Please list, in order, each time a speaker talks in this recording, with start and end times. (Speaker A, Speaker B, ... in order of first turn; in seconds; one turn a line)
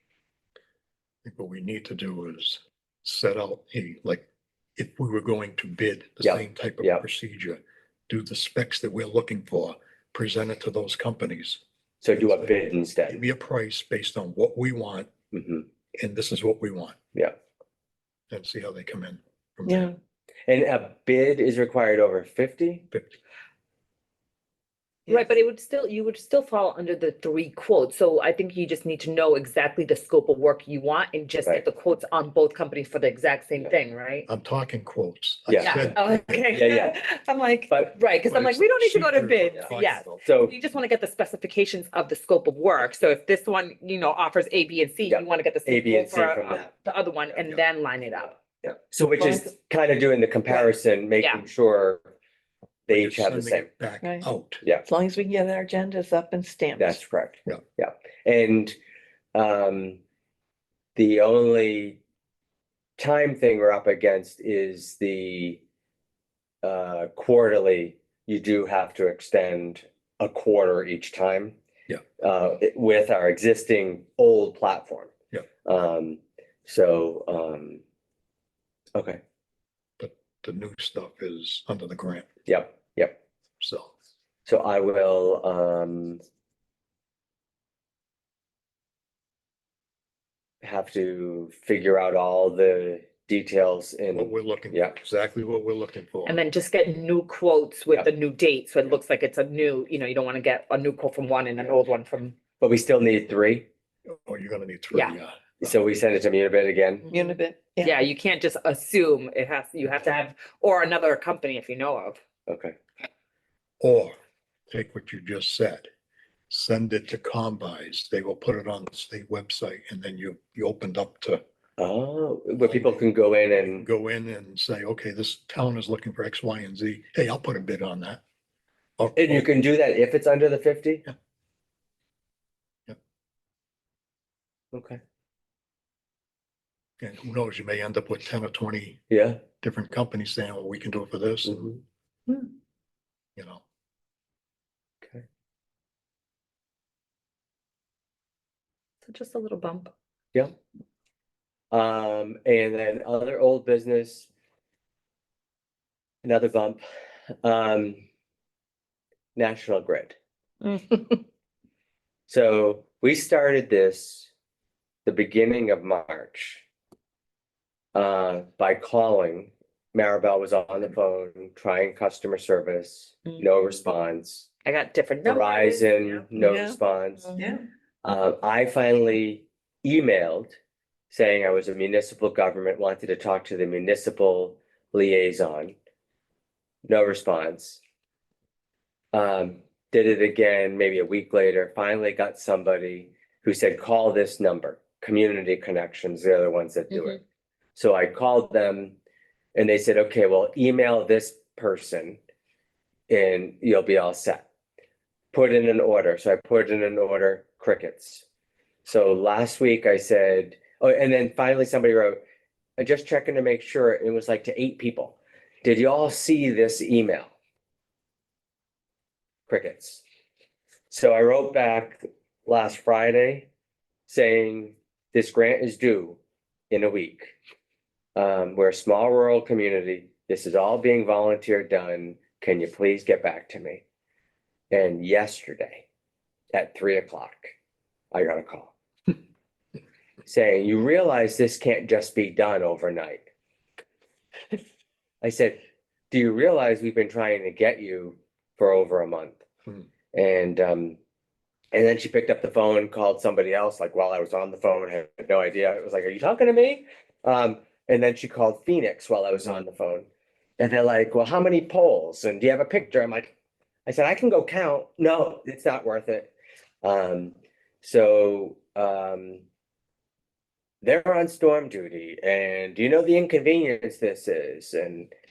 Speaker A: 1.2-4.2
Speaker A: 4.8-11.6
Speaker B: 6.2-7.0
Speaker B: 12.0-13.2
Speaker A: 12.2-12.6
Speaker A: 13.1-15.1
Speaker B: 15.3-15.7
Speaker A: 16.0-17.0
Speaker A: 18.3-19.9
Speaker B: 19.7-20.0
Speaker B: 20.5-22.9
Speaker A: 22.9-23.2
Speaker C: 25.1-34.3
Speaker A: 34.3-36.5
Speaker B: 35.5-35.8
Speaker C: 35.6-48.4
Speaker B: 36.5-37.0
Speaker B: 37.7-38.0
Speaker A: 38.3-40.2
Speaker B: 40.2-40.5
Speaker B: 45.1-46.7
Speaker B: 48.6-52.0
Speaker C: 51.2-51.5
Speaker B: 52.9-53.7
Speaker A: 52.9-54.6
Speaker D: 54.9-57.0
Speaker B: 56.8-58.8
Speaker B: 59.3-60.0
Speaker B: 61.0-62.0
Speaker B: 63.0-65.6
Speaker B: 66.6-71.6
Speaker B: 72.2-75.1
Speaker B: 75.6-77.8
Speaker B: 78.9-79.2
Speaker A: 80.0-82.3
Speaker B: 82.5-83.2
Speaker A: 83.6-83.9
Speaker B: 84.5-86.2
Speaker B: 90.6-95.0
Speaker A: 94.1-96.4
Speaker C: 96.3-102.4
Speaker B: 102.6-103.7
Speaker A: 104.1-105.8
Speaker B: 105.6-107.1
Speaker C: 107.1-112.2
Speaker D: 107.1-108.0
Speaker B: 112.5-112.8
Speaker A: 113.8-114.2
Speaker A: 114.7-115.9
Speaker A: 116.5-121.4
Speaker B: 121.8-123.9
Speaker A: 122.6-123.0
Speaker A: 123.6-128.2
Speaker A: 129.0-129.5
Speaker B: 129.2-131.1
Speaker B: 134.7-135.0
Speaker A: 137.0-141.8
Speaker B: 139.1-139.4
Speaker B: 141.4-141.8
Speaker A: 143.4-143.6
Speaker C: 149.0-149.9
Speaker B: 151.7-154.3
Speaker B: 156.2-156.8
Speaker B: 157.4-158.0
Speaker B: 159.3-160.2
Speaker C: 160.7-161.0
Speaker B: 162.3-164.3
Speaker B: 165.1-166.6
Speaker B: 167.9-174.5
Speaker C: 174.7-176.3
Speaker B: 175.2-177.3
Speaker D: 176.4-176.8
Speaker B: 178.0-180.5
Speaker B: 181.1-185.8
Speaker B: 186.9-187.8
Speaker B: 189.1-197.2
Speaker B: 197.8-199.0
Speaker B: 199.6-202.2
Speaker B: 203.1-204.5
Speaker B: 205.3-208.2
Speaker B: 208.8-212.2
Speaker B: 212.8-217.3
Speaker B: 219.5-220.0
Speaker B: 220.9-223.5
Speaker B: 224.1-226.2
Speaker B: 226.7-227.4
Speaker B: 228.2-233.8
Speaker B: 234.7-235.9
Speaker B: 236.5-237.6
Speaker B: 238.1-238.7
Speaker B: 240.2-243.3
Speaker B: 245.2-245.6
Speaker B: 246.1-249.4
Speaker B: 250.1-251.0
Speaker B: 251.7-263.3
Speaker B: 263.9-266.3
Speaker B: 266.8-269.4
Speaker B: 270.8-275.1